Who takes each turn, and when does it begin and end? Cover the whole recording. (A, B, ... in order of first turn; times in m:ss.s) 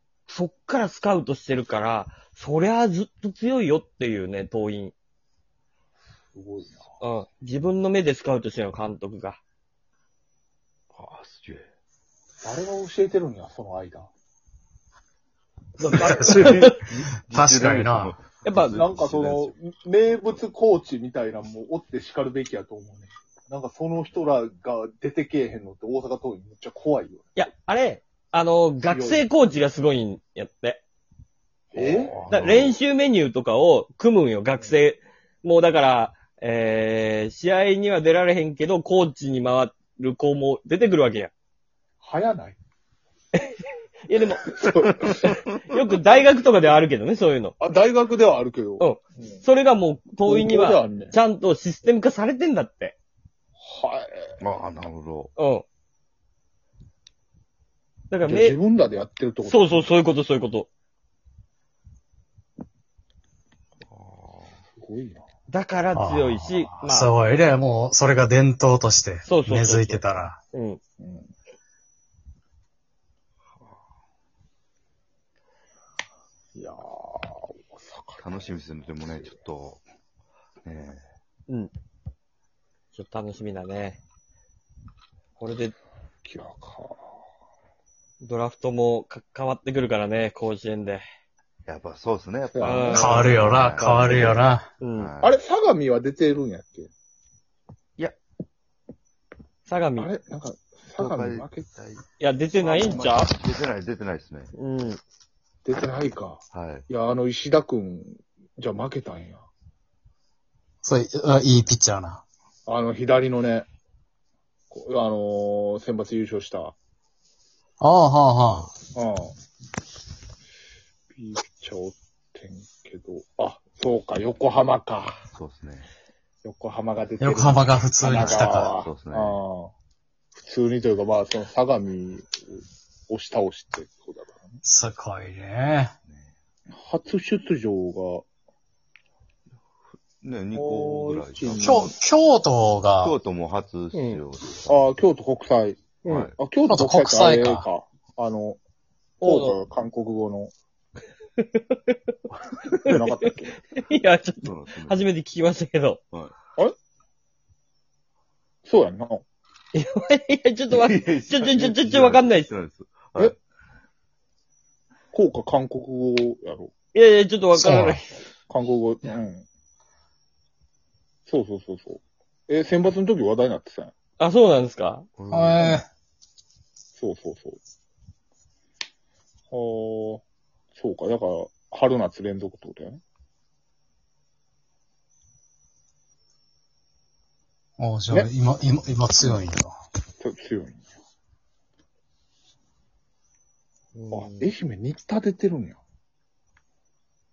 0:00.3-0:04.9 A
0:06.3-0:06.9 B
0:07.0-0:09.4 A
0:10.9-0:11.7 C
0:12.4-0:14.1 B
0:15.8-0:16.9 A
0:15.9-0:16.7 D
0:16.0-0:16.3 B
0:16.3-0:19.5 C
0:17.2-0:18.2 D
0:18.4-0:18.8 A
0:18.7-0:27.4 B
0:27.3-0:30.8 A
0:28.8-0:29.2 B
0:31.7-0:32.7 B
0:31.8-0:32.7 C
0:32.1-0:41.3 A
0:42.0-0:42.6 B
0:43.3-0:44.5 A
0:44.6-0:45.2 B
0:45.2-0:47.5 A
0:47.6-0:49.4 B
0:48.8-0:53.0 A
0:50.2-0:51.2 B
0:53.6-0:54.3 B
0:54.4-0:55.3 C
0:55.4-0:55.6 A
0:58.1-0:58.6 A
0:58.2-0:59.9 B
0:59.4-1:00.7 A
1:03.8-1:04.6 C
1:04.7-1:05.2 B
1:05.5-1:07.1 A
1:05.9-1:10.4 D
1:09.2-1:10.8 A
1:11.0-1:11.3 B
1:16.5-1:19.4 B
1:18.2-1:19.8 C
1:20.6-1:21.0 C
1:22.9-1:24.0 A
1:25.4-1:25.7 A
1:26.2-1:27.0 B
1:28.2-1:31.0 A
1:31.6-1:34.4 C
1:32.5-1:33.3 B
1:32.6-1:34.2 A
1:32.9-1:34.7 D
1:34.8-1:35.1 A
1:34.9-1:35.3 C
1:35.2-1:36.9 B
1:39.6-1:40.1 A
1:40.0-1:41.7 B
1:41.0-1:42.0 C
1:42.2-1:43.3 A
1:42.6-1:43.3 B
1:42.8-1:44.5 C
1:44.5-1:45.0 A
1:45.6-1:49.4 B
1:46.5-1:46.8 C
1:50.8-1:52.2 D
1:52.7-1:53.7 B
1:54.7-1:56.7 B
1:57.8-1:58.7 D
1:58.9-1:59.3 B
2:01.1-2:05.2 B
2:05.3-2:05.9 C
2:06.4-2:09.7 B
2:07.2-2:08.7 D
2:08.1-2:09.4 C
2:10.3-2:14.6 B
2:14.6-2:15.9 D
2:16.0-2:16.3 C
2:16.7-2:18.2 B
2:20.2-2:21.9 C
2:20.5-2:21.9 B
2:21.6-2:23.2 D
2:23.0-2:24.8 C
2:23.9-2:24.2 A
2:24.6-2:28.6 B
2:26.0-2:26.4 C
2:26.6-2:27.6 D
2:29.2-2:29.6 A
2:29.2-2:30.5 B
2:31.4-2:31.9 A
2:32.5-2:33.0 C
2:32.9-2:33.6 B
2:33.2-2:36.0 A
2:34.4-2:35.0 C
2:38.6-2:39.2 B
2:39.7-2:42.5 A
2:40.7-2:43.3 C
2:45.1-2:46.7 B
2:46.9-2:48.1 A
2:47.5-2:48.0 D
2:48.5-2:49.4 B
2:51.3-2:53.9 B
2:54.2-2:55.1 A
2:55.2-2:55.8 C
2:55.3-2:55.8 D
2:56.9-2:57.6 B
2:59.5-3:00.2 B
3:00.8-3:03.0 B
3:07.8-3:09.7 D
3:10.2-3:10.9 B
3:13.9-3:14.5 A
3:14.1-3:15.8 B